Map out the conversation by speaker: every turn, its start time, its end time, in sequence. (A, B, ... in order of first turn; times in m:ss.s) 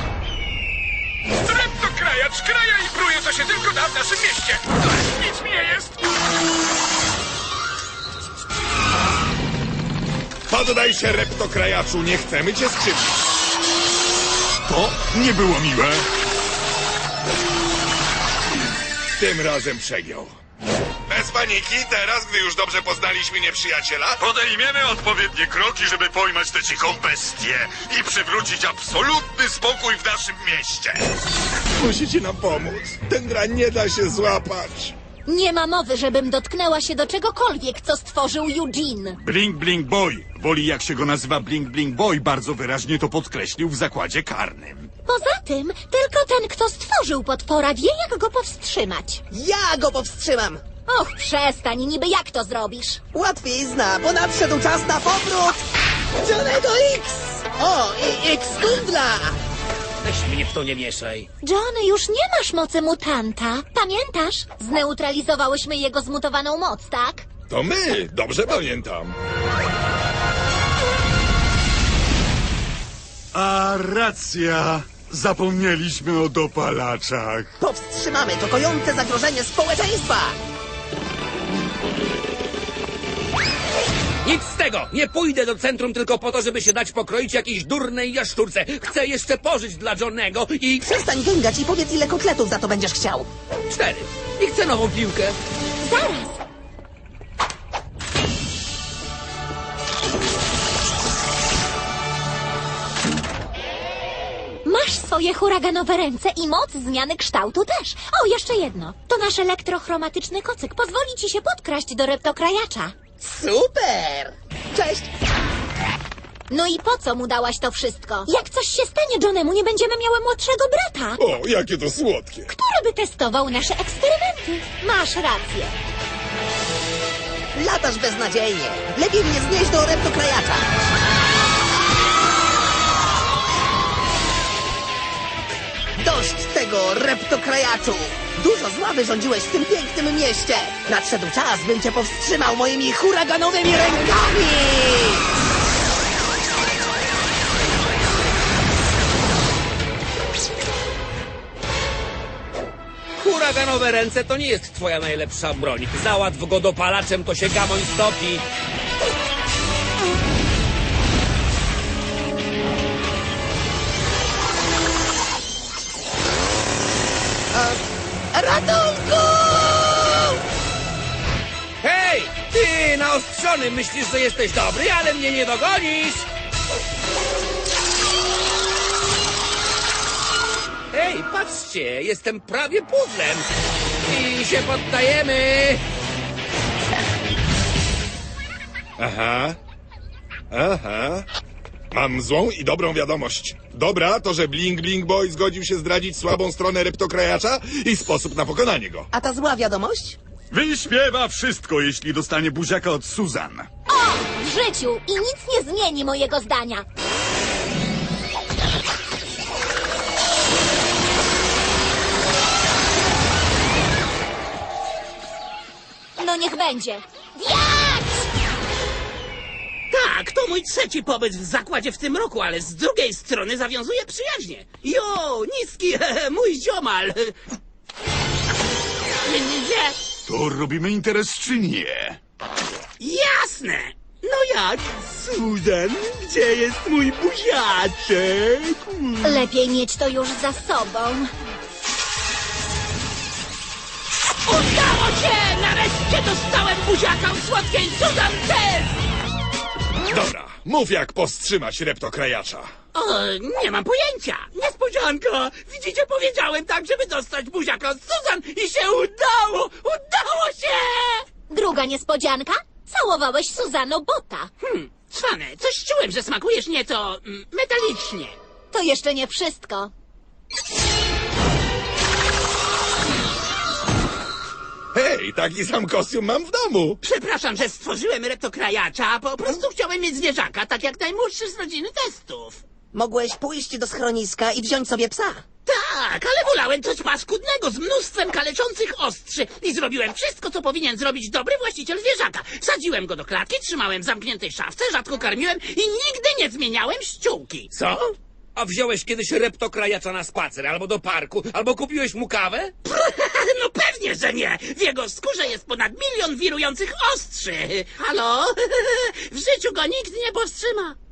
0:01.5-0:05.9 A
0:10.5-0:13.2 B
0:14.7-0:15.9 C
0:19.2-0:20.3 B
0:21.1-0:24.2 B
0:31.8-0:35.0 B
0:35.3-0:39.2 D
0:39.3-0:44.7 C
0:45.1-0:49.2 D
0:49.3-0:50.6 E
0:50.9-0:53.0 D
0:53.1-0:55.6 E
0:56.2-0:59.4 E
1:00.0-1:01.3 F
1:01.4-1:07.3 D
1:07.5-1:09.2 B
1:13.5-1:17.5 C
1:17.6-1:20.4 E
1:24.2-1:30.9 F
1:30.8-1:33.3 E
1:33.7-1:35.4 F
1:35.8-1:36.4 D
1:44.6-1:53.0 D
1:53.2-1:55.1 E
1:56.5-2:01.2 D
2:01.2-2:02.5 B
2:02.5-2:05.8 D
2:07.6-2:10.7 E
2:16.0-2:25.3 E
2:33.2-2:38.5 F
2:47.5-2:47.8 E
2:48.3-2:50.4 E
2:51.8-2:56.3 F
3:00.9-3:03.5 F
3:04.0-3:05.8 F
3:09.0-3:09.6 B
3:10.5-3:11.3 B
3:11.9-3:19.1 B
3:19.1-3:20.2 E
3:20.6-3:23.6 C
3:23.9-3:26.8 D
3:36.2-3:38.1 D
3:39.9-3:47.3 G
3:49.2-3:50.0 G
3:50.3-3:51.6 C
3:53.0-3:59.4 G
3:59.2-4:01.3 D
4:04.5-4:09.0 G
4:10.1-4:12.7 B
4:13.0-4:21.2 G
4:21.5-4:24.5 D
4:24.6-4:28.4 G
4:28.7-4:29.9 D
4:34.9-4:37.0 B
4:37.0-4:42.6 G
4:42.9-4:45.4 E
4:45.7-4:57.8 G
4:57.8-5:02.8 F
5:02.8-5:11.0 G